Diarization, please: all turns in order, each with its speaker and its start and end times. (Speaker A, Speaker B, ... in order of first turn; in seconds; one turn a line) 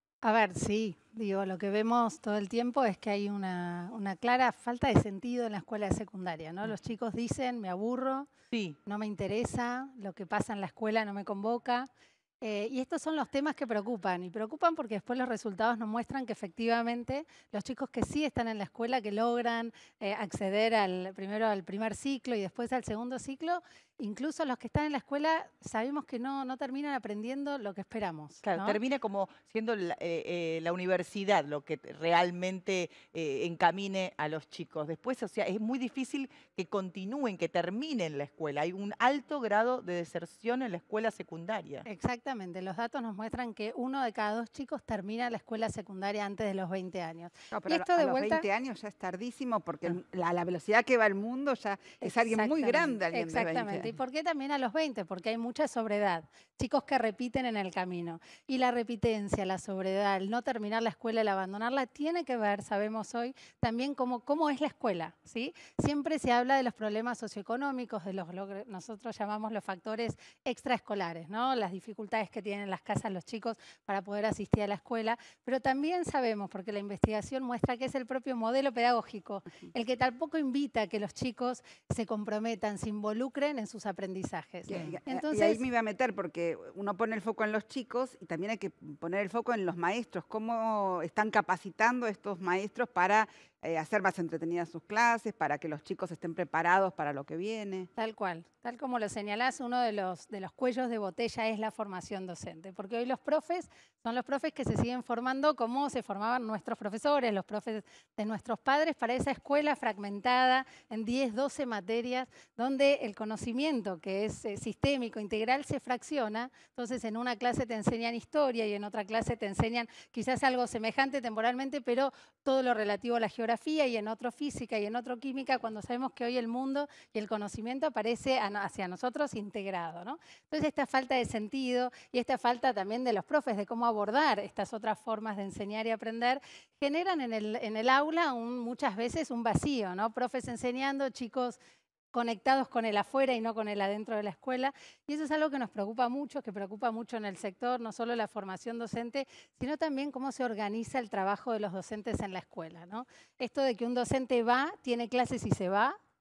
Speaker A: 0.2-8.3
Speaker B: 8.5-8.8
Speaker A: 8.8-11.9
Speaker A: 12.4-28.8
Speaker B: 28.4-41.9
Speaker A: 41.9-48.4
Speaker C: 47.5-53.9
Speaker A: 52.0-85.6
Speaker C: 84.7-97.9
Speaker A: 98.0-141.6
Speaker A: 142.1-156.0